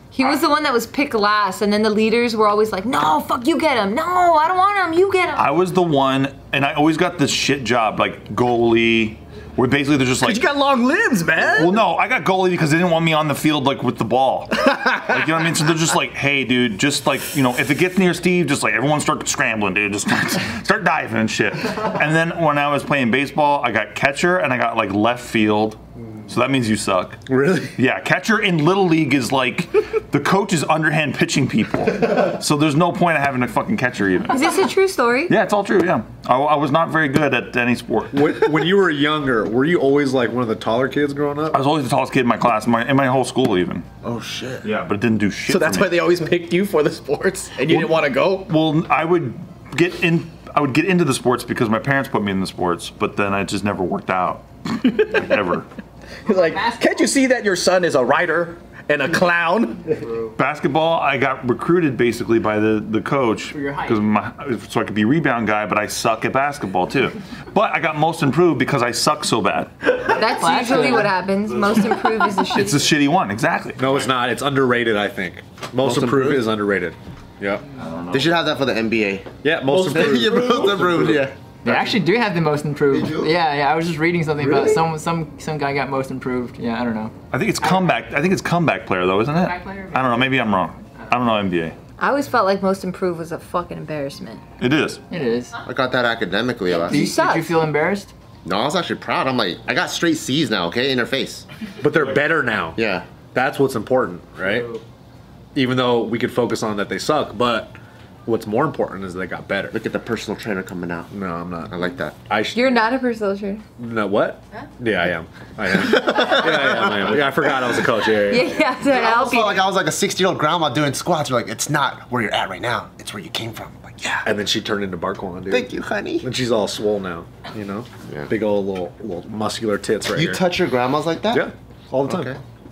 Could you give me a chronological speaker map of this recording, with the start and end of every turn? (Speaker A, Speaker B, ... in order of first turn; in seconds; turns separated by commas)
Speaker A: 0.1-5.5, Speaker B: 5.3-10.4, Speaker C: 10.2-11.8, Speaker B: 11.4-27.2, Speaker D: 27.3-27.8, Speaker B: 27.8-34.4, Speaker A: 34.3-35.3, Speaker B: 35.3-38.5, Speaker D: 38.1-41.6, Speaker B: 41.5-43.8, Speaker E: 44.0-44.7, Speaker B: 44.6-46.0, Speaker C: 45.5-48.5, Speaker B: 47.7-55.7, Speaker C: 56.2-60.0, Speaker F: 56.3-56.9, Speaker B: 60.4-69.7, Speaker F: 63.5-64.0, Speaker F: 70.0-71.1, Speaker A: 70.0-72.9, Speaker B: 72.4-73.8, Speaker D: 73.8-77.6, Speaker E: 75.8-76.5, Speaker B: 77.8-78.3, Speaker E: 78.1-81.3, Speaker D: 79.4-82.0, Speaker F: 81.6-87.1, Speaker E: 82.9-83.3, Speaker E: 84.5-84.7, Speaker B: 87.3-91.7, Speaker F: 89.5-90.2, Speaker A: 92.0-94.4, Speaker B: 94.6-95.0, Speaker F: 95.1-95.5, Speaker E: 95.7-97.0, Speaker A: 96.7-97.6, Speaker F: 96.9-98.1, Speaker E: 98.4-101.4, Speaker D: 101.8-102.8, Speaker E: 102.8-103.0, Speaker D: 103.3-104.8, Speaker D: 105.5-107.7, Speaker D: 108.2-109.8, Speaker E: 109.7-111.1, Speaker D: 111.1-112.8, Speaker E: 111.7-112.2, Speaker A: 112.5-113.6, Speaker D: 113.8-118.5, Speaker E: 115.9-117.8, Speaker A: 118.3-119.6, Speaker E: 118.8-124.3, Speaker D: 124.2-130.4, Speaker E: 125.5-126.3, Speaker E: 130.1-131.4, Speaker D: 131.3-132.4, Speaker E: 132.1-132.4